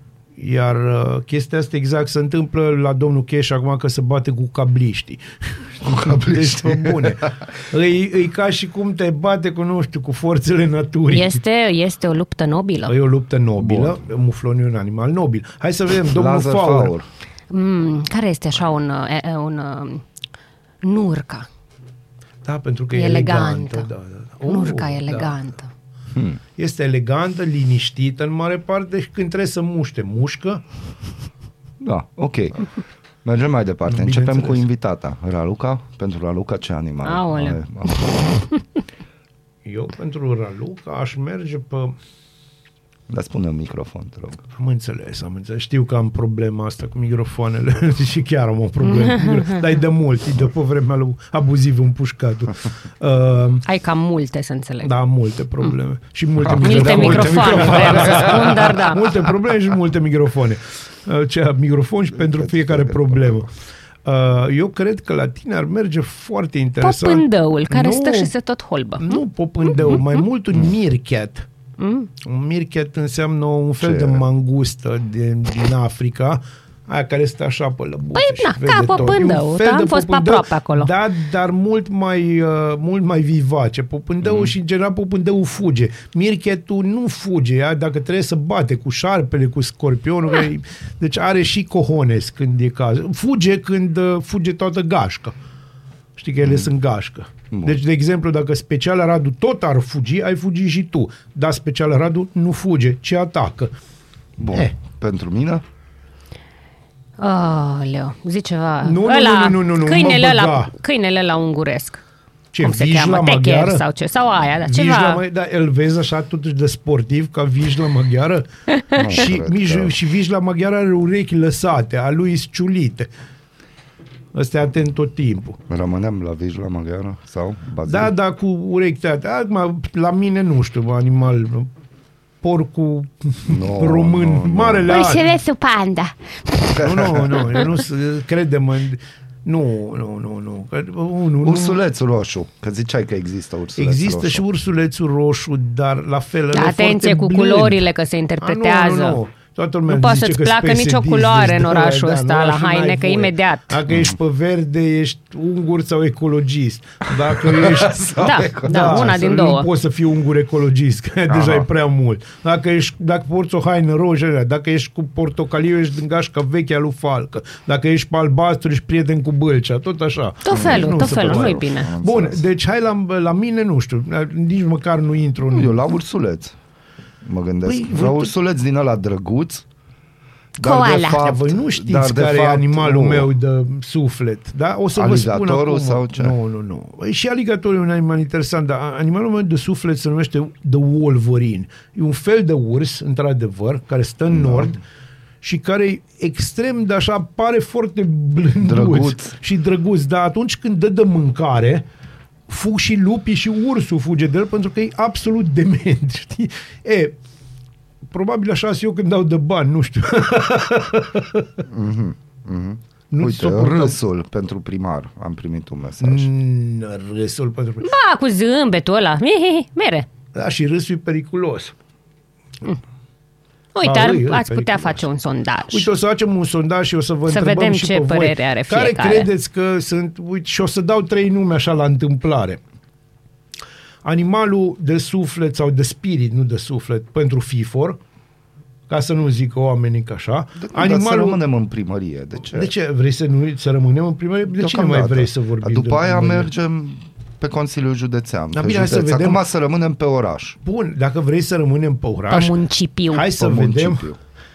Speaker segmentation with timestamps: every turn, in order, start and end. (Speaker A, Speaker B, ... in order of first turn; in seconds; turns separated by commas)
Speaker A: 0.4-11.4, Speaker B: 5.8-7.3, Speaker C: 11.1-12.9, Speaker A: 12.9-16.9, Speaker B: 13.6-14.0, Speaker B: 16.0-17.1, Speaker C: 17.5-20.0, Speaker C: 20.8-21.5, Speaker A: 22.4-25.4, Speaker C: 22.9-23.9, Speaker C: 24.5-25.7, Speaker B: 26.1-26.4, Speaker A: 26.6-30.6, Speaker B: 31.8-32.7, Speaker B: 33.2-38.4, Speaker A: 33.9-34.6, Speaker C: 37.0-38.1, Speaker A: 39.6-42.0, Speaker B: 43.1-44.4, Speaker A: 44.5-53.6, Speaker C: 53.6-54.9, Speaker A: 54.8-63.5, Speaker B: 56.4-58.6, Speaker C: 56.6-59.1, Speaker B: 62.2-63.5, Speaker A: 64.0-68.3, Speaker C: 66.8-69.2, Speaker A: 69.0-71.5, Speaker C: 71.8-72.1, Speaker A: 72.2-95.3, Speaker B: 73.8-74.2, Speaker C: 78.2-80.9, Speaker B: 84.2-84.5, Speaker A: 96.2-103.7, Speaker B: 96.4-96.7, Speaker B: 97.5-97.8, Speaker B: 104.4-105.6, Speaker C: 107.2-112.0, Speaker A: 108.8-110.7, Speaker A: 112.5-113.8, Speaker C: 112.6-115.2, Speaker A: 114.6-118.5, Speaker C: 118.8-119.1, Speaker B: 118.9-119.9, Speaker A: 119.1-123.1, Speaker A: 124.3-125.6, Speaker B: 125.7-128.1, Speaker A: 127.8-131.7, Speaker A: 132.4-135.4, Speaker B: 133.4-135.1, Speaker C: 134.9-136.6, Speaker B: 136.6-137.7, Speaker A: 136.7-141.8, Speaker B: 141.4-144.4, Speaker A: 143.8-147.8, Speaker C: 146.5-149.2, Speaker A: 148.4-175.8, Speaker C: 149.9-153.8, Speaker B: 153.9-154.2, Speaker B: 157.3-159.1, Speaker C: 158.2-159.7, Speaker B: 161.3-161.7, Speaker C: 170.4-171.9, Speaker B: 170.5-172.4, Speaker B: 175.5-176.6, Speaker B: 177.2-179.7, Speaker A: 177.6-178.3, Speaker B: 180.6-183.3, Speaker C: 180.6-181.1, Speaker A: 181.1-194.8, Speaker B: 184.9-186.3, Speaker B: 194.3-194.7, Speaker A: 195.4-201.8, Speaker B: 198.6-199.3, Speaker A: 202.5-207.1, Speaker A: 208.1-211.6, Speaker B: 211.7-216.3, Speaker A: 213.1-213.9, Speaker A: 216.0-217.9, Speaker C: 217.8-220.1, Speaker A: 220.3-221.7, Speaker C: 223.7-225.9, Speaker A: 223.8-225.0, Speaker A: 225.7-232.6, Speaker C: 227.3-229.3, Speaker A: 234.0-238.0, Speaker A: 238.9-241.4, Speaker B: 240.6-242.7, Speaker A: 242.5-246.5, Speaker B: 244.6-250.6, Speaker A: 248.5-249.4, Speaker A: 250.6-252.5, Speaker C: 252.3-253.3, Speaker A: 253.1-254.1, Speaker B: 253.3-254.2